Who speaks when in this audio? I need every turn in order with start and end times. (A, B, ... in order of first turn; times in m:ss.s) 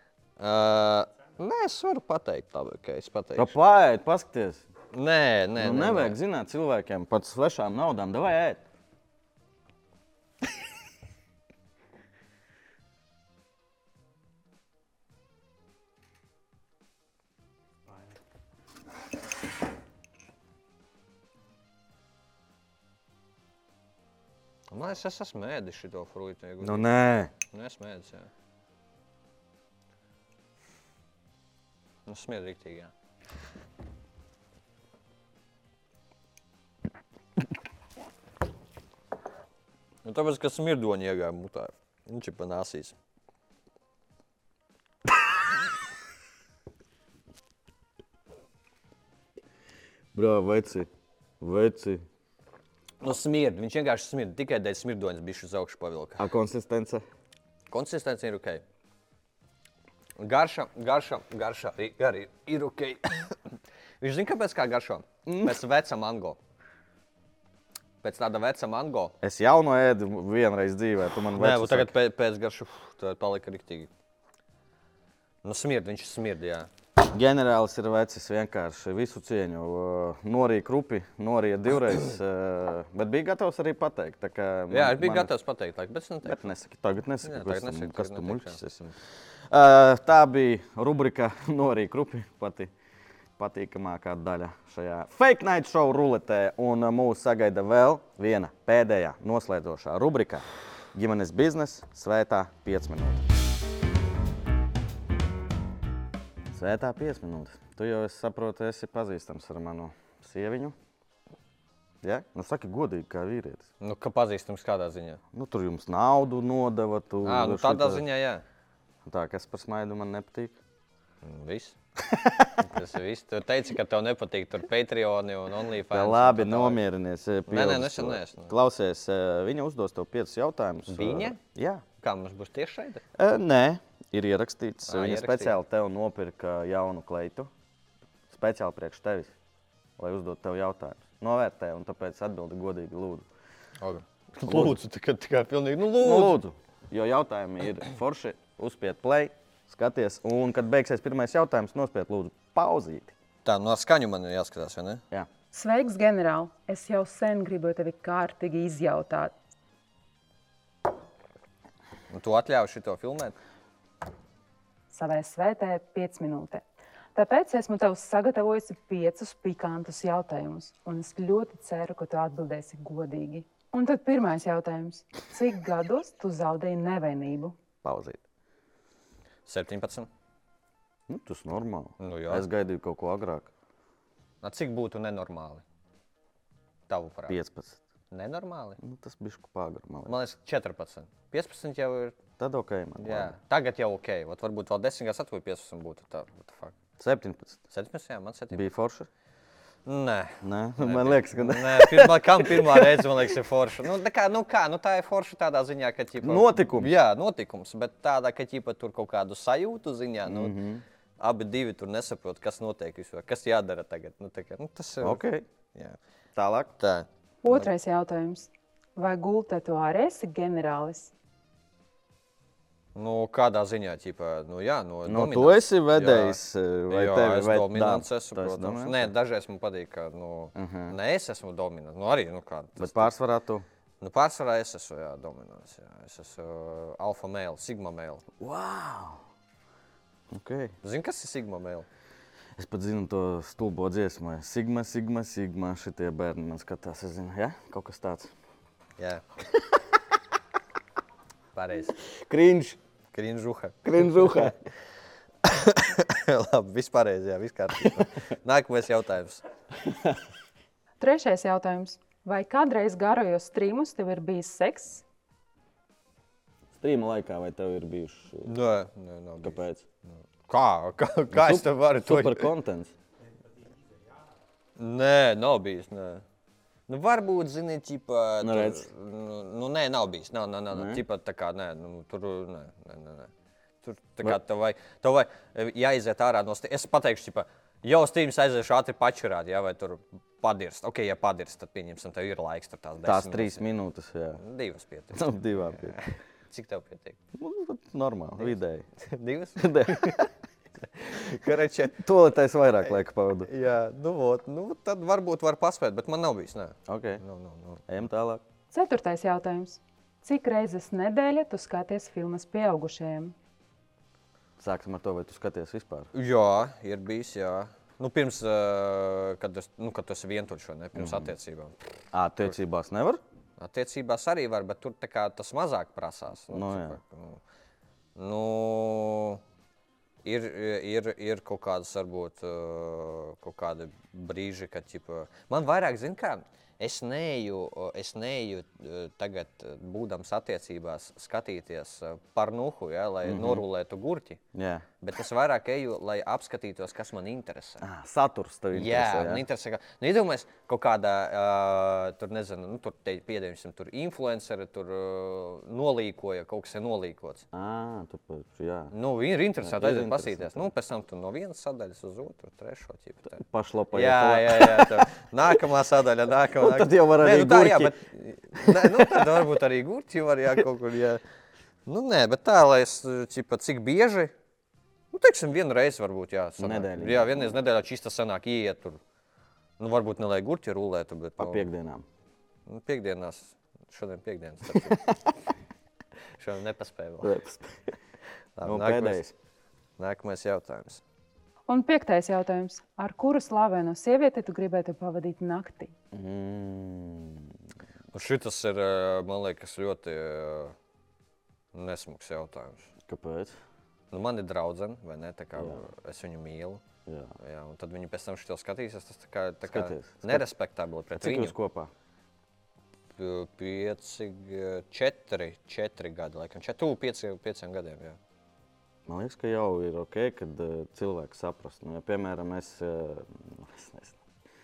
0:00.4-0:03.5 A
0:03.4-0:04.6 B
0:04.9-0:06.2 A
0:05.6-0:08.6 B
0:24.7-0:26.9 A
0:26.6-0:27.3 B
0:27.5-0:28.3 A
0:32.0-0:32.9 A
0:40.0-0:42.9 A
0:50.1-0:50.9 B
0:51.4-0:52.0 B
0:53.0-0:56.2 A
0:56.2-0:57.0 B
0:57.7-0:58.6 A
1:00.2-1:03.4 A
1:04.0-1:06.4 A
1:05.2-1:05.6 B
1:08.0-1:09.1 A
1:09.2-1:11.9 B
1:11.4-1:13.9 A
1:15.4-1:16.7 A
1:17.0-1:25.3 B
1:24.7-1:26.5 A
1:26.2-1:28.8 B
1:27.2-1:28.9 A
1:29.5-1:32.7 B
1:33.4-1:43.2 B
1:46.5-1:50.7 B
1:52.0-1:53.7 B
1:53.8-1:55.2 A
1:55.3-1:58.0 B
1:57.2-1:58.4 A
1:59.0-2:00.5 B
2:01.2-2:01.8 A
2:02.1-2:02.5 B
2:02.6-2:06.8 A
2:05.9-2:11.8 B
2:07.5-2:08.5 A
2:10.9-2:11.4 A
2:12.0-2:13.0 A
2:13.2-2:17.5 B
2:14.9-2:15.5 A
2:18.3-2:19.3 B
2:20.0-2:23.2 B
2:23.8-2:26.4 A
2:24.4-2:24.8 B
2:26.0-2:33.1 B
2:33.4-2:35.0 A
2:35.5-2:39.3 C
2:42.1-2:43.3 A
2:44.9-2:46.6 C
2:47.1-2:57.6 C
2:57.8-2:58.2 B
2:59.4-3:00.1 A
3:01.1-3:03.5 B
3:02.0-3:02.5 A
3:04.4-3:05.6 A
3:06.9-3:07.4 A
3:07.3-3:07.8 B
3:08.1-3:08.8 A
3:08.8-3:10.1 B
3:10.0-3:12.2 A
3:12.4-3:13.4 B
3:13.0-3:16.8 A
3:17.0-3:17.6 B
3:17.7-3:18.7 A
3:18.5-3:19.1 B
3:19.8-3:30.5 A
3:20.4-3:23.3 B
3:26.2-3:26.9 B
3:30.2-3:30.8 B
3:31.2-3:36.0 A
3:35.0-3:35.4 B
3:36.3-3:36.7 B
3:36.8-3:37.7 A
3:37.4-3:41.1 C
3:42.9-3:53.1 A
3:45.0-3:49.1 B
3:50.5-3:50.9 B
3:52.8-3:53.6 B
3:54.0-3:58.2 A
3:58.4-3:59.2 B
4:00.3-4:00.7 B
4:00.8-4:01.8 A
4:02.6-4:08.3 B
4:09.0-4:09.2 A
4:11.5-4:12.0 A
4:12.0-4:12.8 B
4:13.1-4:14.7 A
4:13.8-4:14.5 B
4:15.4-4:19.4 A
4:19.8-4:20.2 B
4:21.0-4:25.0 C
4:26.7-4:28.5 B
4:28.4-4:29.6 A
4:29.4-4:29.8 B
4:30.1-4:32.5 A
4:31.3-4:32.9 B
4:34.8-4:36.2 A
4:36.9-4:43.3 A
4:38.4-4:38.9 B
4:40.7-4:41.0 B
4:43.8-4:53.6 A
4:53.0-4:54.4 B
4:54.4-4:57.2 A
4:55.1-4:56.0 B
4:57.3-4:58.8 B
4:58.4-5:00.3 A
4:59.6-5:00.3 B
5:00.8-5:02.0 A
5:01.9-5:03.5 B
5:03.4-5:07.8 A
5:06.8-5:07.2 B
5:07.9-5:08.4 B
5:08.7-5:13.3 C
5:14.6-5:16.1 B
5:16.1-5:21.7 A
5:20.9-5:21.3 B
5:22.1-5:23.2 B
5:23.6-5:27.4 A
5:26.5-5:27.0 B
5:28.2-5:29.4 A
5:30.2-5:44.4 A
5:43.2-5:43.6 B
5:44.5-5:44.8 B
5:45.0-5:47.8 A
5:47.8-5:49.4 B
5:48.7-5:57.4 A
5:57.5-5:58.9 B
5:58.9-6:03.4 A
5:59.6-6:00.7 B
6:03.3-6:05.1 B
6:03.9-6:11.2 A
6:06.6-6:08.0 B
6:08.6-6:09.4 B
6:11.8-6:14.3 A
6:15.1-6:19.0 A
6:16.6-6:17.5 B
6:19.8-6:21.7 A
6:21.4-6:22.0 B
6:22.7-6:25.1 A
6:24.7-6:25.1 B
6:26.4-6:27.3 A
6:27.2-6:27.8 B
6:28.6-6:29.2 A
6:28.6-6:29.3 B
6:30.0-6:31.0 A
6:31.7-6:35.9 C
6:36.1-6:37.5 B
6:38.1-6:40.7 A
6:41.7-6:42.9 A
6:43.0-6:43.5 B
6:44.1-6:46.8 A
6:45.6-6:45.8 B
6:47.0-6:47.3 B
6:47.4-6:51.5 A
6:49.6-6:50.4 B
6:51.2-6:51.9 B
6:53.2-6:58.2 A
6:59.0-7:04.2 B